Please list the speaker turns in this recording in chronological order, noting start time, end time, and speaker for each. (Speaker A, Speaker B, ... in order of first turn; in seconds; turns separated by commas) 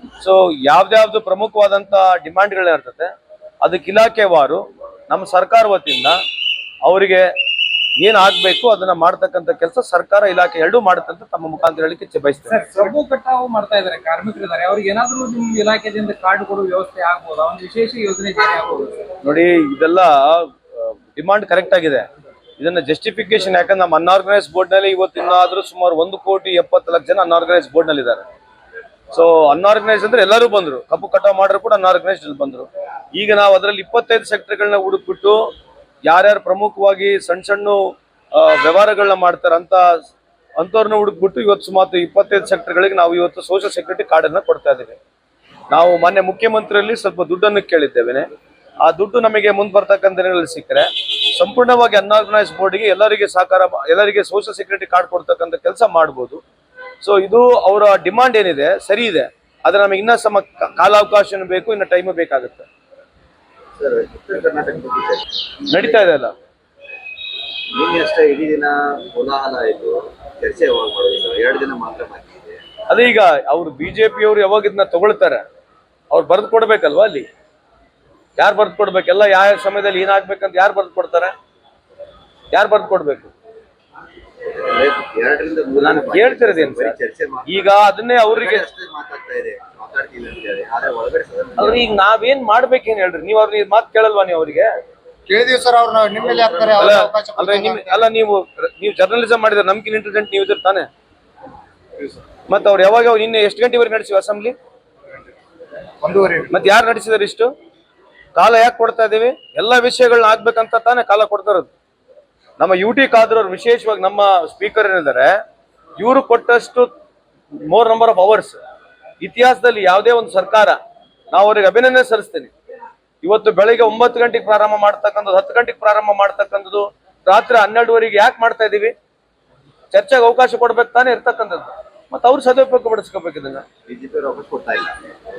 Speaker A: 0.2-6.2, Speaker A: 6.8-7.3, Speaker A: 8.0-12.6, Speaker B: 12.5-19.1, Speaker A: 19.2-22.0, Speaker A: 22.6-28.2, Speaker A: 29.1-35.4, Speaker A: 36.0-37.8, Speaker A: 38.3-40.0, Speaker A: 40.6-45.0, Speaker A: 45.7-48.3, Speaker A: 48.8-56.4, Speaker A: 57.0-62.7, Speaker C: 63.8-65.9, Speaker A: 65.7-66.3, Speaker C: 67.7-72.6, Speaker A: 72.9-75.4, Speaker A: 76.1-77.2, Speaker A: 78.4-81.3, Speaker A: 82.5-83.3, Speaker C: 84.5-87.7, Speaker A: 85.8-87.0, Speaker A: 87.5-88.6, Speaker C: 88.2-91.9, Speaker A: 91.6-94.7, Speaker D: 95.3-98.0, Speaker C: 96.2-97.0, Speaker A: 96.8-100.9, Speaker A: 102.5-104.5, Speaker D: 106.0-106.5, Speaker A: 106.5-107.5, Speaker A: 108.3-111.7, Speaker A: 112.6-115.3, Speaker A: 116.0-116.9, Speaker A: 117.6-118.6, Speaker A: 119.2-120.8, Speaker A: 121.3-122.5, Speaker A: 123.2-128.9, Speaker A: 129.9-133.6, Speaker C: 133.9-135.1